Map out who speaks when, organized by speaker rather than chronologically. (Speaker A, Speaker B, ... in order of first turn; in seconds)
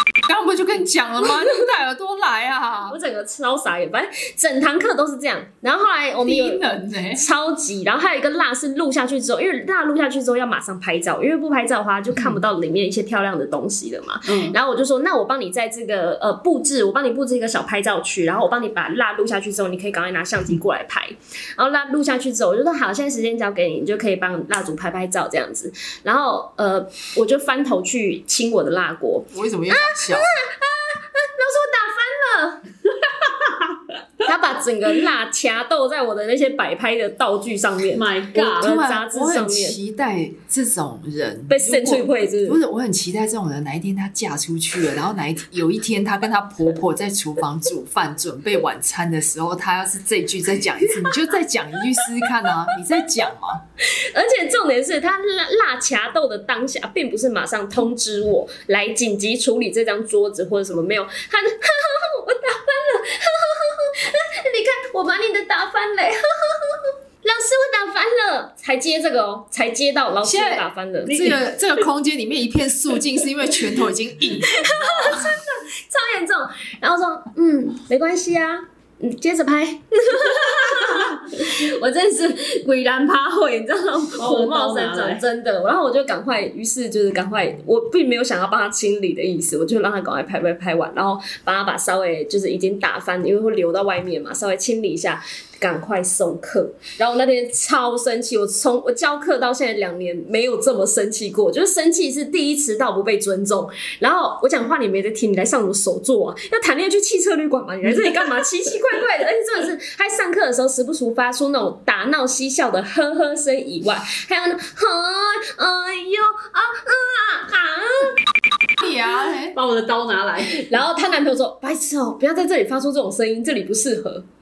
Speaker A: 0.2-3.0, 6.2-7.2, 29.3-30.3, 38.4-53.6, 70.2-75.3, 118.8-119.5
Speaker B: 2.9-32.7, 34.2-39.8, 41.5-42.6, 53.8-71.4, 74.5-118.2, 120.5-124.2
Speaker C: 14.2-14.6, 37.9-38.6, 84.2-85.2, 119.5-120.7